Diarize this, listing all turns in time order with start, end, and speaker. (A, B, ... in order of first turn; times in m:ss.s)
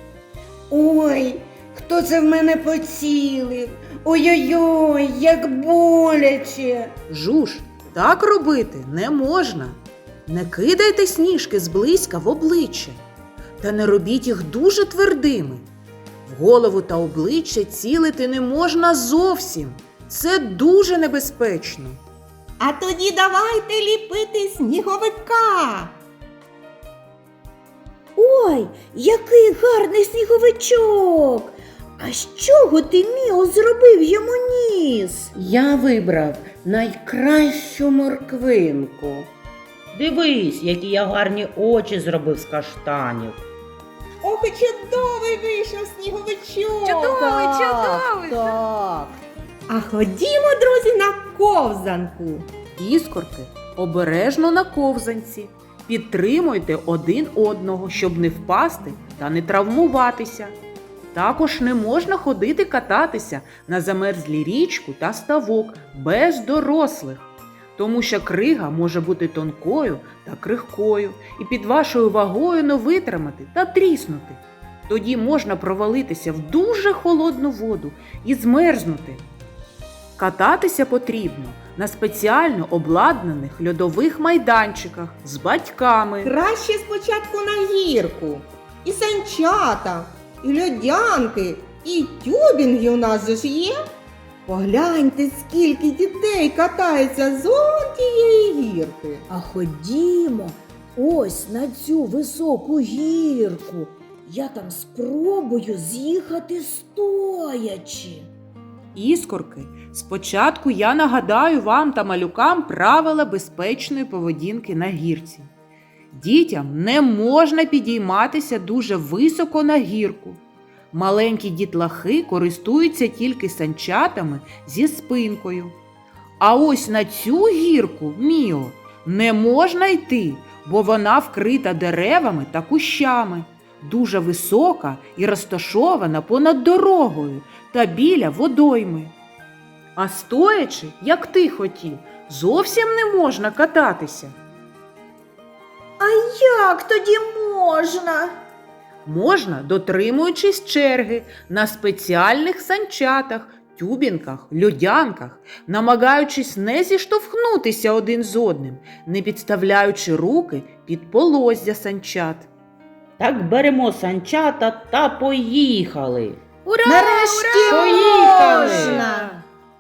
0:00.7-0:06.9 A
0:07.1-0:13.0 B
0:13.6-0:15.6 B
0:16.3-0:22.0 B
0:22.6-0:25.9 C
0:28.2-0:35.3 D
0:35.4-0:39.3 A
0:39.9-0:43.4 E
0:44.2-0:47.1 C
0:46.8-0:48.6 B
0:47.2-0:49.1 D
0:49.7-0:52.5 C
0:52.8-1:00.6 B
1:01.1-1:19.2 B
1:20.2-1:26.3 B
1:26.2-1:33.8 C
1:34.5-1:39.2 C
1:39.3-1:48.3 D
1:49.0-1:55.5 B
1:56.1-2:00.4 B
2:00.9-2:05.8 B
2:06.4-2:19.1 B
2:20.0-2:24.4 B
2:26.0-2:28.3 D
2:29.0-2:42.5 B
2:43.2-2:46.4 E
2:46.6-2:49.3 B
2:46.8-2:49.4 C
2:47.7-2:49.1 E